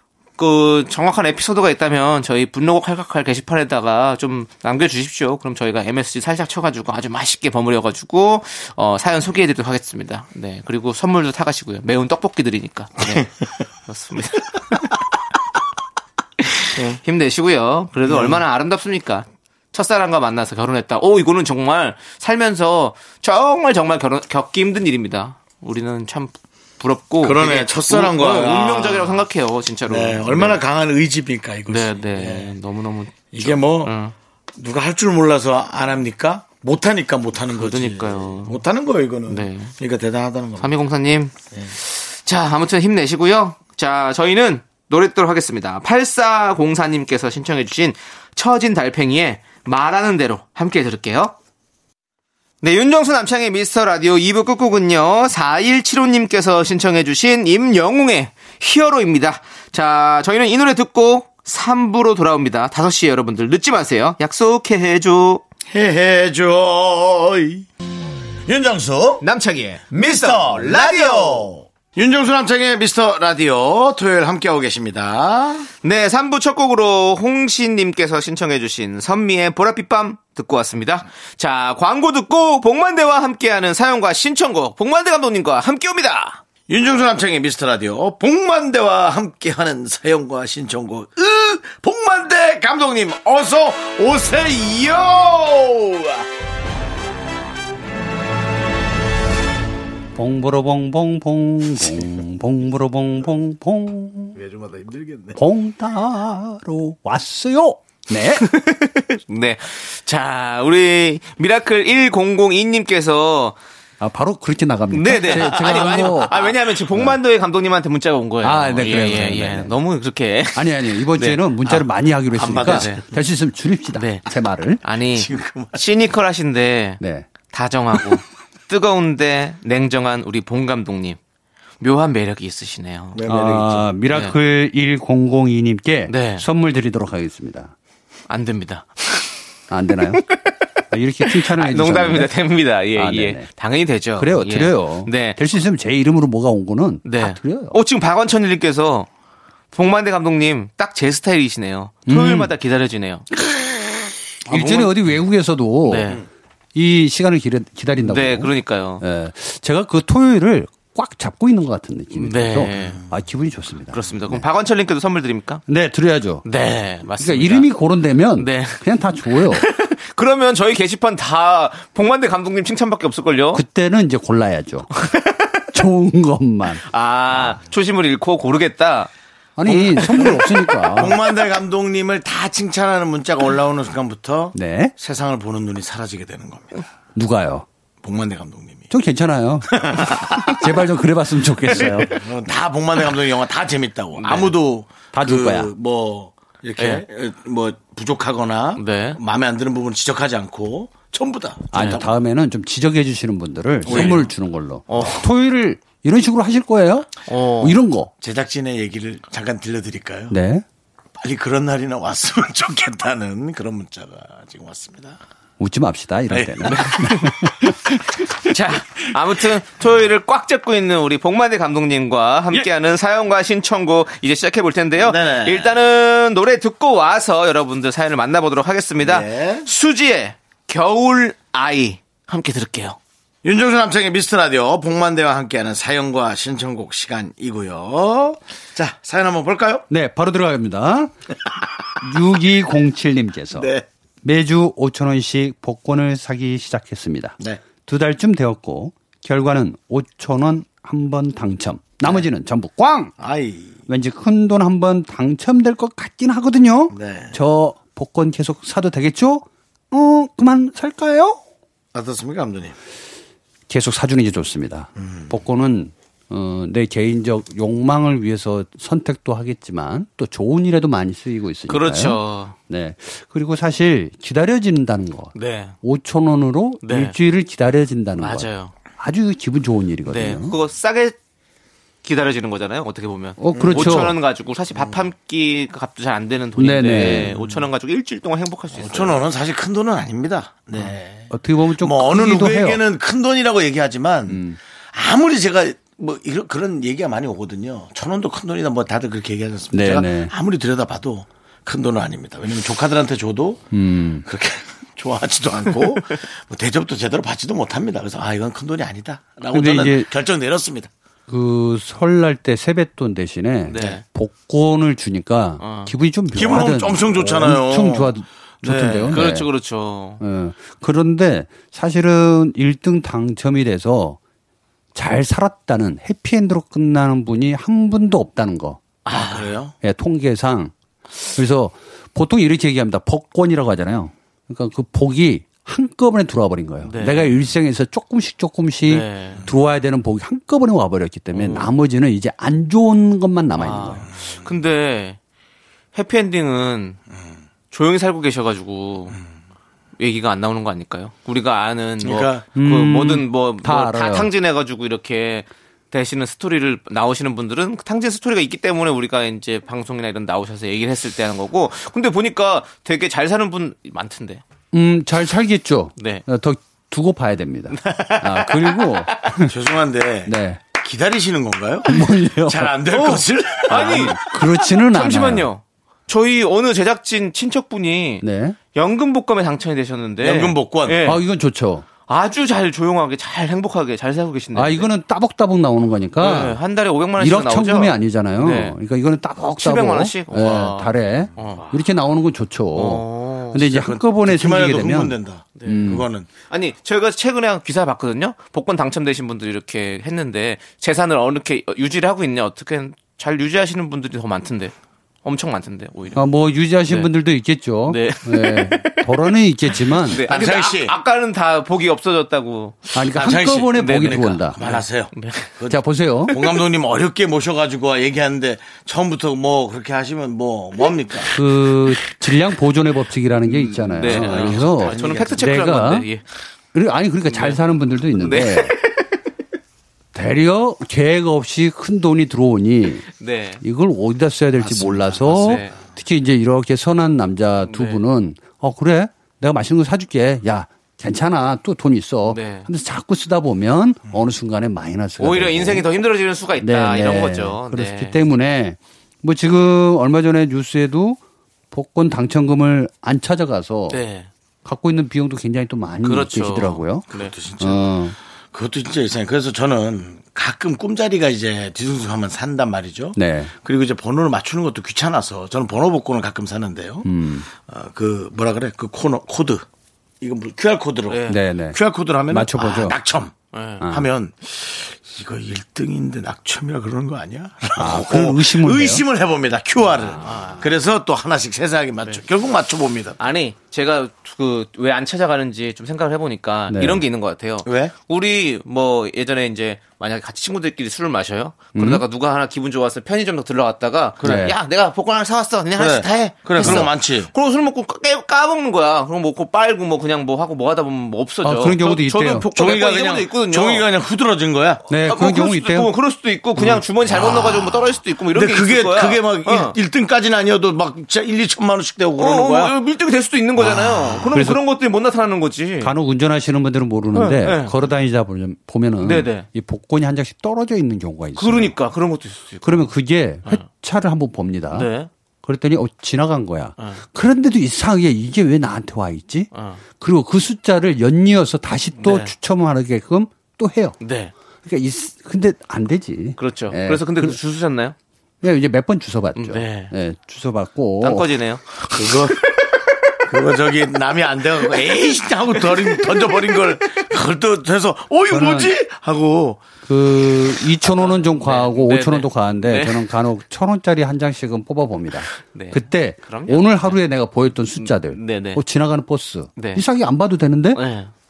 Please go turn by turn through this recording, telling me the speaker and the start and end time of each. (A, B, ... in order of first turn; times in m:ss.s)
0:00.4-0:13.3 A
0:13.8-0:14.9 A
0:16.4-0:30.6 A
0:18.0-0:18.4 B
0:27.2-0:29.2 B
0:29.9-0:32.6 B
0:31.7-0:34.1 A
0:33.3-0:33.9 B
0:34.6-0:40.7 B
0:37.5-0:38.6 A
0:39.3-0:39.7 A
0:40.6-0:51.4 A
0:52.6-1:05.4 A
1:05.7-1:07.6 B
1:08.4-1:09.2 B
1:09.2-1:11.5 A
1:09.9-1:15.7 B
1:15.8-1:26.4 A
1:26.7-1:36.2 B
1:40.2-1:44.4 C
1:44.3-1:45.4 B
1:45.4-1:48.5 C
1:48.4-1:53.6 A
1:54.0-1:57.2 C
1:54.9-2:01.8 A
1:58.4-1:59.7 C
2:00.5-2:04.8 C
2:02.3-2:03.0 B
2:02.6-2:03.0 A
2:03.9-2:04.2 A
2:04.8-2:11.2 A
2:05.1-2:05.8 B
2:07.0-2:07.3 C
2:11.8-2:13.2 A
2:13.1-2:13.9 B
2:13.3-2:17.7 C
2:14.1-2:14.4 A
2:16.1-2:16.4 A
2:18.3-2:19.3 A
2:19.7-2:20.3 C
2:20.2-2:20.5 A
2:20.9-2:22.3 C
2:21.2-2:25.4 A
2:22.9-2:23.5 C
2:24.2-2:27.8 C
2:27.0-2:29.1 A
2:29.7-2:33.3 A
2:32.1-2:32.5 C
2:33.5-2:33.7 C
2:34.5-2:36.2 C
2:34.5-2:34.9 A
2:35.8-2:36.2 A
2:36.7-2:44.4 C
2:38.0-2:39.0 A
2:42.2-2:43.0 A
2:43.9-2:45.6 A
2:45.7-2:46.4 C
2:46.4-2:47.7 A
2:47.2-2:49.7 C
2:48.4-2:53.6 A
2:53.5-2:55.0 C
2:55.0-2:55.6 A
2:55.7-2:57.5 C
2:56.8-2:59.1 A
2:59.6-3:01.2 C
2:59.6-3:06.8 B
3:04.5-3:04.9 C
3:07.1-3:07.6 C
3:08.0-3:08.9 B
3:08.9-3:12.2 C
3:09.8-3:10.6 B
3:11.7-3:22.0 B
3:14.2-3:14.5 A
3:15.1-3:15.7 C
3:16.8-3:17.0 A
3:18.8-3:19.2 A
3:21.7-3:28.1 C
3:21.7-3:22.0 A
3:23.8-3:24.2 B
3:23.9-3:24.2 A
3:24.9-3:25.2 A
3:27.3-3:27.8 A
3:28.2-3:30.4 B
3:30.3-3:30.6 C
3:31.2-3:35.2 B
3:35.6-3:37.9 C
3:36.3-3:37.2 B
3:36.7-3:37.3 A
3:38.4-3:53.0 A
3:45.0-3:45.8 B
3:49.0-3:49.7 B
3:53.4-3:59.8 B
3:59.9-4:01.1 C
4:02.0-4:03.7 C
4:03.5-4:03.8 B
4:04.2-4:13.1 C
4:13.2-4:13.8 B
4:13.9-4:21.4 C
4:16.9-4:17.4 B
4:21.9-4:22.8 B
4:23.7-4:40.5 C
4:25.0-4:25.3 B
4:31.7-4:32.5 A
4:35.3-4:35.8 A
4:36.8-4:37.2 A
4:38.2-4:38.7 A
4:40.1-4:41.2 A
4:42.0-4:49.2 A
4:43.4-4:44.1 C
4:43.5-4:44.1 B
4:44.7-4:45.0 B
4:46.6-4:47.3 C
4:47.3-4:47.6 B
4:48.7-5:03.7 B
4:51.3-4:52.8 C
4:54.3-4:54.6 C
4:59.7-5:00.3 C
5:03.7-5:04.2 C
5:04.2-5:10.9 B
5:09.5-5:10.1 C
5:11.3-5:19.5 C
5:13.7-5:14.0 A
5:15.6-5:15.9 A
5:16.3-5:19.2 B
5:18.6-5:20.2 A
5:20.2-5:24.2 C
5:24.9-5:28.8 C
5:29.0-5:29.5 A
5:29.1-5:29.7 B
5:29.8-5:30.7 C
5:31.3-5:44.1 C
5:36.8-5:37.3 A
5:38.8-5:39.4 A
5:41.3-5:41.7 A
5:43.6-5:45.2 A
5:45.9-5:47.0 A
5:47.7-5:49.2 A
5:50.0-6:04.4 A
5:52.0-5:52.4 B
5:52.5-5:54.3 C
6:04.7-6:09.5 C
6:06.0-6:06.2 A
6:07.7-6:09.2 A
6:09.4-6:14.2 B
6:10.2-6:10.6 C
6:11.9-6:12.7 C
6:12.9-6:21.2 A
6:13.7-6:15.5 C
6:18.2-6:18.6 C
6:20.2-6:21.0 B
6:21.0-6:21.8 C
6:22.1-6:24.9 A
6:24.5-6:26.6 C
6:26.2-6:28.8 A
6:27.2-6:36.1 C
6:29.5-6:31.8 A
6:32.7-6:33.7 A
6:33.6-6:36.3 B
6:35.6-6:35.8 A
6:36.5-6:46.2 A
6:46.1-6:50.2 C
6:47.9-6:49.1 A
6:49.8-6:52.9 A
6:50.2-6:50.9 B
6:52.9-6:54.6 C
6:53.1-7:01.3 B
6:53.7-6:55.5 A
6:55.7-6:56.4 C
7:01.3-7:06.1 C
7:03.5-7:06.2 A
7:04.0-7:05.4 B
7:06.7-7:08.8 C
7:07.3-7:07.6 A
7:08.2-7:09.0 A
7:10.1-7:13.1 C
7:13.1-7:13.6 A
7:13.6-7:25.8 C
7:14.6-7:15.6 B
7:15.3-7:15.8 A
7:17.7-7:18.0 A
7:22.3-7:22.7 A
7:25.2-7:28.2 A
7:26.6-7:31.2 C
7:31.7-7:34.0 C
7:33.9-7:34.3 A
7:34.6-7:37.0 C
7:36.0-7:37.3 A
7:37.1-7:37.9 B
7:37.6-7:38.2 C
7:38.5-7:49.6 B
7:43.2-7:43.5 C
7:47.0-7:47.5 C
7:50.2-8:03.2 B
7:51.1-7:51.4 A
7:51.3-7:53.0 C
7:53.5-7:53.8 A
7:53.8-7:54.1 C
7:57.8-7:59.0 C
8:00.1-8:00.7 A
8:03.2-8:23.9 A
8:06.7-8:07.0 C
8:07.6-8:07.9 B
8:11.7-8:12.0 C
8:14.2-8:14.5 B
8:14.2-8:14.5 C
8:15.8-8:17.3 B
8:16.6-8:16.9 C
8:21.4-8:22.4 C
8:22.5-8:24.8 B
8:24.9-8:25.9 C
8:25.0-8:29.8 A
8:27.0-8:32.7 B
8:32.2-8:35.9 A
8:34.1-8:34.6 C
8:35.8-8:41.8 C
8:37.1-8:37.7 A
8:39.0-8:39.4 A
8:41.4-8:42.9 A
8:42.6-8:44.9 C
8:44.7-8:45.1 A
8:45.4-8:54.0 C
8:49.5-8:49.8 A
8:52.0-8:52.3 A
8:54.0-8:54.3 A
8:54.6-8:57.4 C
8:56.4-8:57.9 A
8:58.4-9:01.3 C
8:59.4-8:59.9 A
9:01.0-9:02.8 A
9:01.9-9:02.4 B
9:03.2-9:09.6 B
9:05.6-9:06.6 A
9:08.3-9:08.7 C
9:09.8-9:20.8 C
9:10.8-9:13.1 A
9:15.4-9:17.0 A
9:17.8-9:18.6 A
9:19.6-9:19.8 A
9:20.7-9:21.1 A